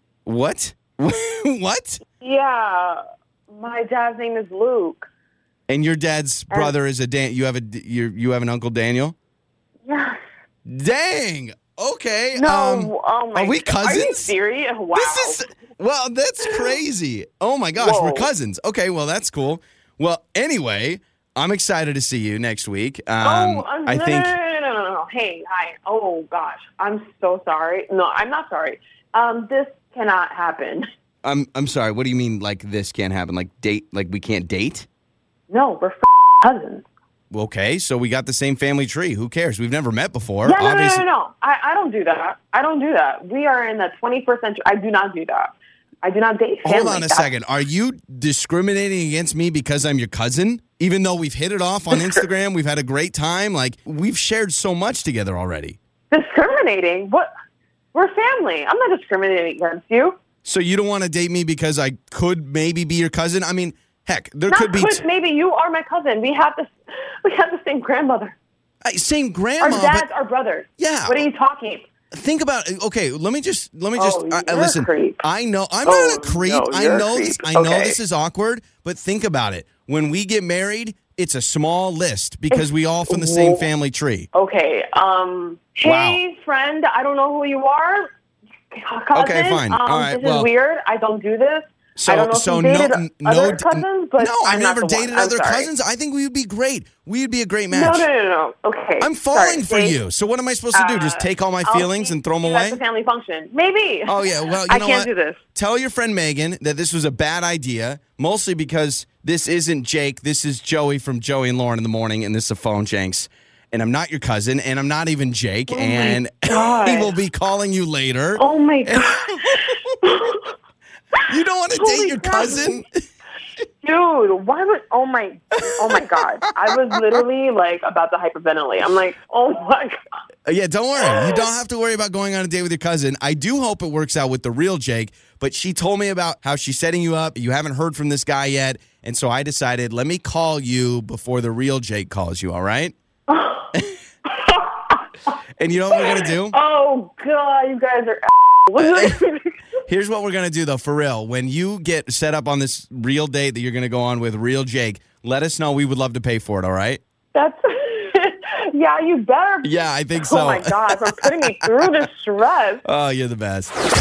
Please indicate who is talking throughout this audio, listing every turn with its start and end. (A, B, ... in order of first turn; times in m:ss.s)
0:00.2-0:02.0 A
0:02.2-0:05.1 B
0:05.7-0:09.1 A
0:06.5-0:06.8 B
0:09.8-0:10.2 B
0:10.6-0:14.3 A
0:12.3-0:15.4 B
0:14.9-0:24.4 A
0:17.8-0:18.3 B
0:23.2-0:30.9 B
0:31.2-0:34.9 A
0:35.5-0:36.8 B
0:37.3-0:41.0 A
0:40.4-0:47.3 B
0:46.6-0:55.8 A
0:56.1-0:57.3 B
0:57.9-1:00.2 B
1:00.4-1:05.0 A
1:04.5-1:08.4 B
1:08.8-1:10.1 A
1:09.6-1:11.9 B
1:10.8-1:11.2 A
1:12.1-1:24.3 A
1:14.0-1:15.2 B
1:15.8-1:18.0 B
1:22.5-1:23.7 B
1:24.3-1:28.1 B
1:25.8-1:26.2 A
1:28.7-1:35.7 B
1:29.1-1:30.5 A
1:32.0-1:38.1 A
1:37.7-1:40.0 B
1:39.0-1:42.8 A
1:40.7-1:45.4 B
1:44.0-1:59.8 A
1:55.7-1:57.1 B
1:58.4-2:00.5 B
2:01.3-2:03.0 A
2:01.7-2:02.8 B
2:03.8-2:10.0 B
2:05.6-2:07.2 A
2:10.4-2:22.9 A
2:23.3-2:23.7 B
2:24.3-2:25.0 B
2:25.6-2:26.6 A
2:25.9-2:29.5 B
2:28.8-2:29.2 A
2:29.9-2:37.0 A
2:37.3-2:42.8 B
2:39.6-2:41.8 A
2:42.8-2:43.7 A